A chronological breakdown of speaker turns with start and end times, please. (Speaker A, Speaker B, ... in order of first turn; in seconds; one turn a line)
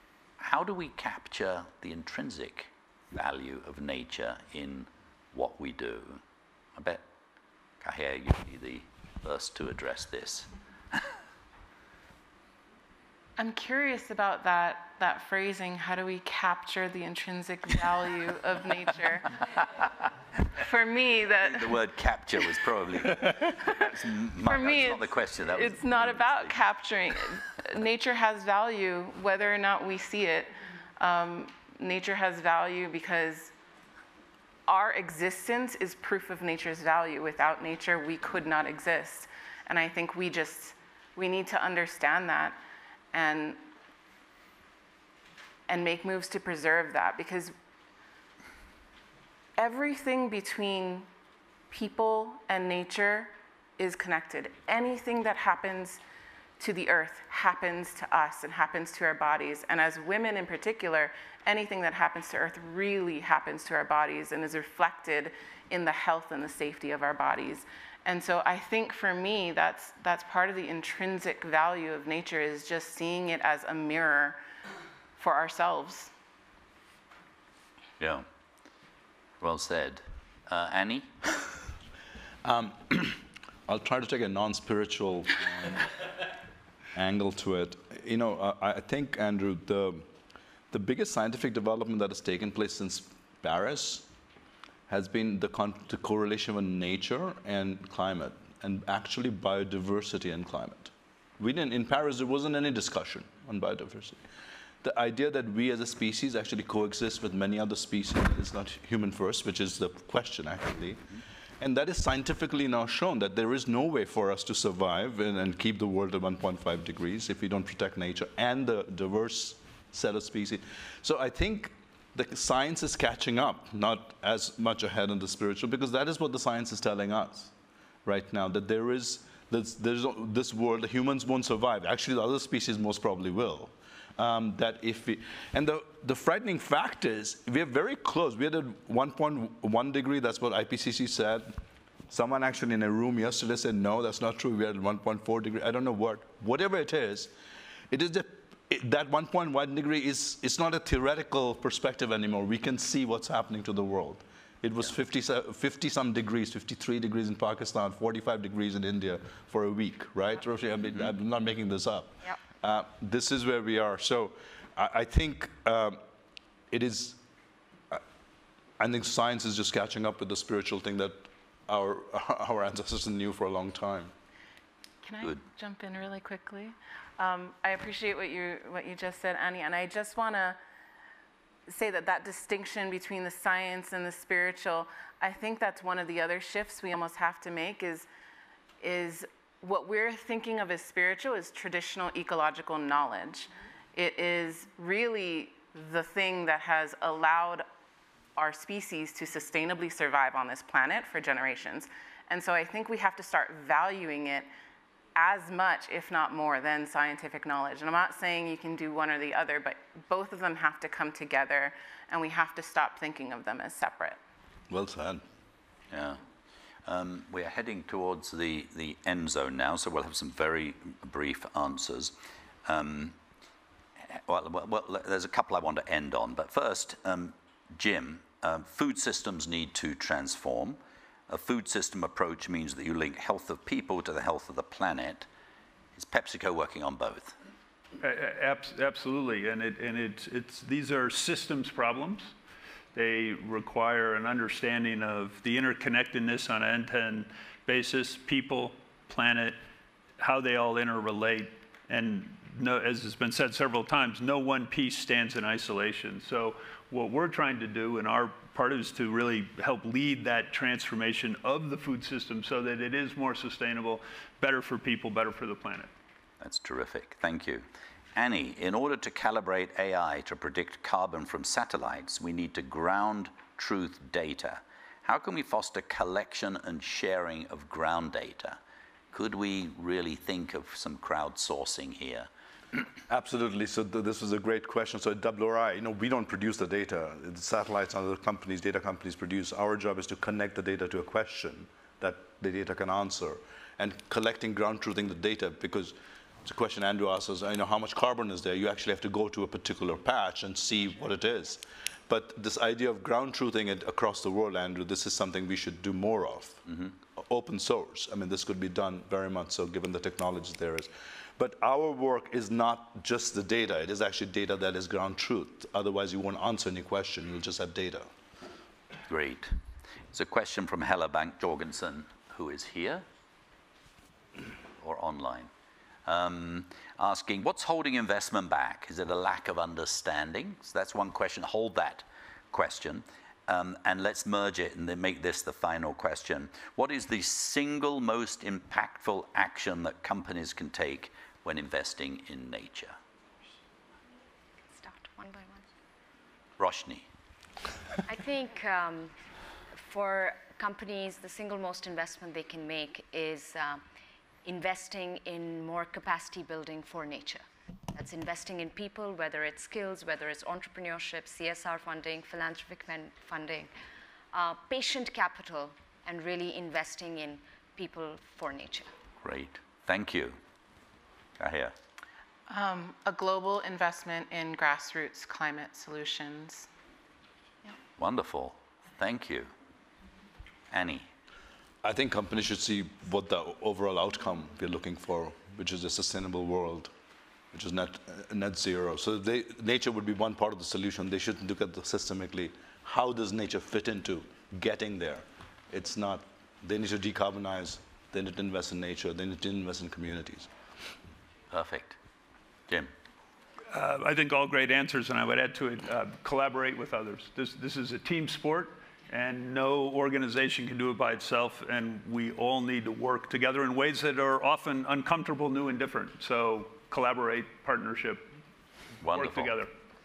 Speaker A: 0.4-6.2
Speaker A: 6.8-7.0
Speaker A: 7.8-11.0
Speaker B: 13.4-19.4
Speaker B: 20.6-21.8
Speaker A: 21.4-26.6
Speaker B: 24.4-33.5
Speaker B: 34.7-42.6
Speaker B: 43.1-43.6
Speaker B: 45.7-47.5
Speaker B: 49.6-51.1
Speaker B: 51.7-56.0
Speaker B: 56.6-74.4
Speaker B: 75.2-76.1
Speaker A: 78.0-78.2
Speaker A: 79.4-81.1
Speaker C: 82.4-85.9
Speaker C: 86.9-90.0
Speaker C: 90.7-94.1
Speaker C: 94.9-104.2
Speaker C: 104.8-127.5
Speaker C: 128.0-141.5
Speaker C: 142.1-147.3
Speaker C: 147.9-166.0
Speaker C: 166.7-167.2
Speaker C: 168.8-174.1
Speaker B: 175.0-180.6
Speaker B: 181.7-188.1
Speaker B: 188.8-197.6
Speaker B: 198.3-204.5
Speaker B: 205.2-214.2
Speaker C: 214.7-215.2
Speaker A: 215.9-216.2
Speaker A: 216.8-223.2
Speaker A: 224.1-235.3
Speaker A: 235.9-237.3
Speaker D: 238.0-242.3
Speaker D: 242.9-249.6
Speaker D: 250.2-265.9
Speaker A: 266.4-278.6
Speaker A: 279.1-282.3
Speaker C: 283.1-318.1
Speaker A: 319.1-319.6
Speaker A: 320.1-323.1
Speaker A: 324.8-325.5
Speaker A: 326.1-343.0
Speaker E: 344.7-345.6
Speaker A: 346.6-347.1
Speaker E: 348.0-349.1
Speaker E: 349.7-353.8
Speaker E: 354.4-363.7
Speaker E: 364.3-368.9
Speaker A: 369.2-370.4
Speaker A: 371.4-371.7
Speaker B: 372.5-376.7
Speaker A: 378.0-379.5
Speaker A: 380.7-381.1
Speaker C: 381.8-386.9
Speaker C: 387.5-400.5
Speaker A: 401.5-402.0
Speaker D: 403.7-418.3
Speaker A: 419.0-419.6
Speaker D: 419.1-419.7